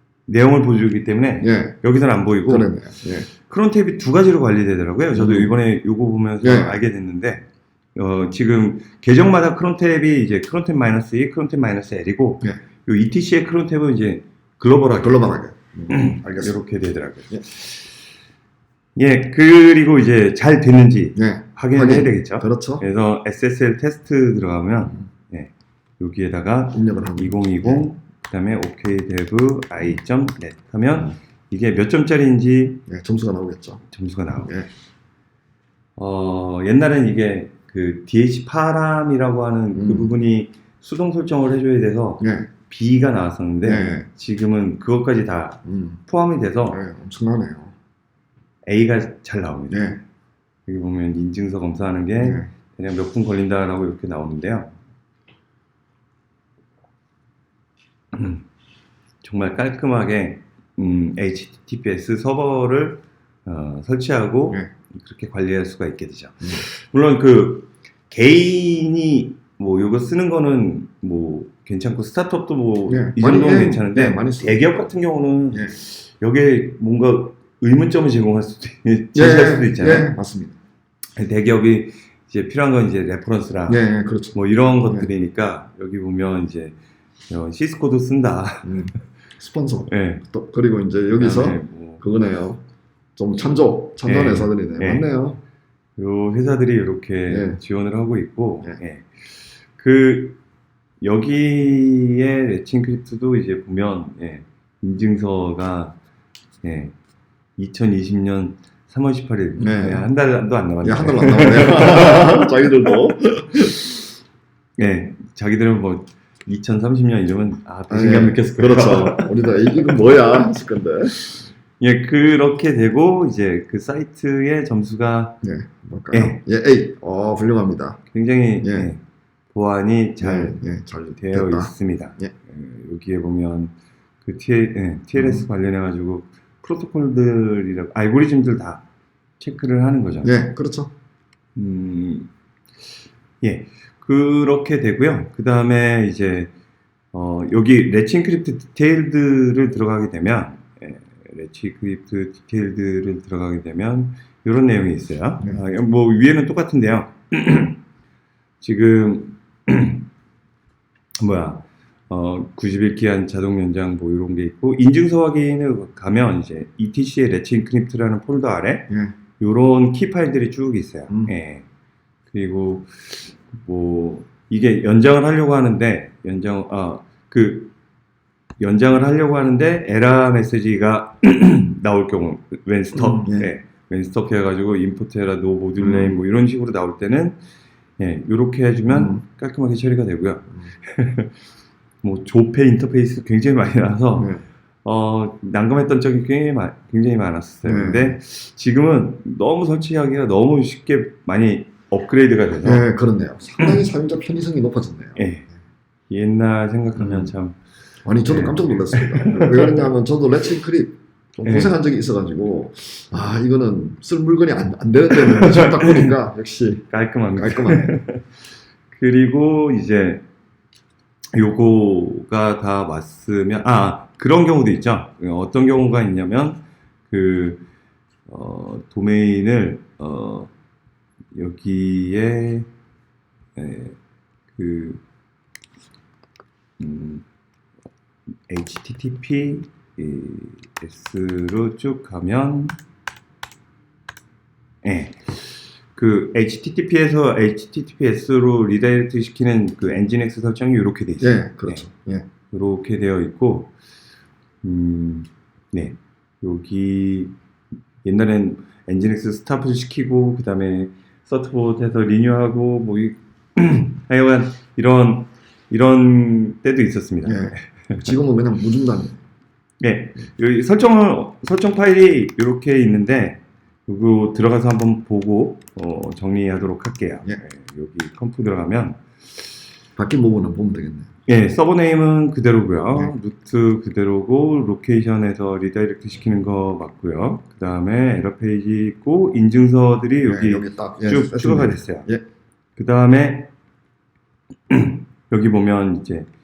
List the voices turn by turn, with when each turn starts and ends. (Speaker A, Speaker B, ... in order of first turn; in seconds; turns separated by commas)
Speaker A: 0.3-2.7, Speaker B: 1.4-1.8, Speaker B: 2.5-3.3, Speaker A: 3.3-15.4, Speaker B: 5.1-5.6, Speaker B: 6.4-6.8, Speaker B: 15.0-16.6, Speaker A: 15.9-17.8, Speaker A: 19.0-32.8, Speaker B: 21.2-22.8, Speaker B: 26.7-27.9, Speaker B: 32.9-33.8, Speaker A: 33.9-34.5, Speaker A: 36.0-46.8, Speaker B: 39.7-40.1, Speaker B: 42.2-42.5, Speaker B: 43.6-44.1, Speaker B: 45.7-46.0, Speaker B: 46.7-47.7, Speaker A: 48.6-49.9, Speaker B: 49.7-50.0, Speaker A: 50.7-54.8, Speaker B: 52.2-52.5, Speaker A: 58.1-58.5, Speaker A: 59.2-80.1, Speaker B: 72.9-74.9, Speaker B: 79.1-80.5, Speaker A: 81.2-86.8, Speaker B: 83.7-85.1, Speaker A: 87.3-88.9, Speaker B: 88.6-92.6, Speaker A: 89.9-90.2, Speaker A: 91.2-92.0, Speaker B: 93.2-95.4, Speaker A: 94.0-95.1, Speaker A: 96.0-100.4, Speaker B: 97.3-97.6, Speaker A: 101.0-106.0, Speaker A: 106.6-107.0, Speaker A: 107.6-112.5, Speaker B: 109.6-110.1, Speaker B: 110.8-114.0, Speaker A: 114.8-120.0, Speaker B: 117.9-121.2, Speaker A: 121.2-125.4, Speaker B: 125.4-128.0, Speaker A: 126.1-126.4, Speaker A: 128.1-130.6, Speaker B: 128.6-128.9, Speaker B: 130.2-132.3, Speaker A: 131.2-138.8, Speaker B: 135.2-135.5, Speaker A: 139.4-140.3, Speaker B: 140.2-140.9, Speaker A: 141.6-142.3, Speaker A: 143.4-146.5, Speaker A: 147.1-157.8, Speaker A: 158.6-160.1, Speaker A: 161.2-171.7, Speaker A: 172.3-177.7, Speaker A: 178.6-187.4, Speaker B: 183.0-183.5, Speaker B: 185.8-186.2, Speaker A: 188.0-191.3, Speaker B: 188.9-189.2, Speaker A: 192.0-202.8, Speaker B: 194.2-194.4, Speaker B: 197.7-198.2, Speaker B: 202.6-205.2, Speaker A: 203.6-203.9, Speaker A: 205.2-205.5, Speaker A: 206.1-207.6, Speaker B: 207.0-207.3, Speaker B: 208.1-216.9, Speaker A: 208.2-209.9, Speaker A: 211.4-211.7, Speaker A: 215.3-216.1, Speaker A: 216.9-218.3, Speaker B: 217.4-218.0, Speaker A: 218.9-220.2, Speaker A: 221.3-227.7, Speaker A: 228.3-230.5, Speaker A: 231.3-232.7, Speaker A: 233.6-234.0, Speaker A: 234.6-235.0, Speaker A: 236.8-237.3, Speaker A: 238.5-242.8, Speaker A: 244.8-251.9, Speaker B: 251.2-252.3, Speaker A: 252.5-253.7, Speaker A: 254.6-257.4, Speaker A: 258.0-268.1, Speaker B: 267.2-269.2, Speaker A: 269.8-279.0, Speaker B: 280.0-281.1, Speaker A: 281.3-292.1, Speaker B: 290.3-292.2, Speaker A: 292.8-293.5, Speaker A: 294.7-296.3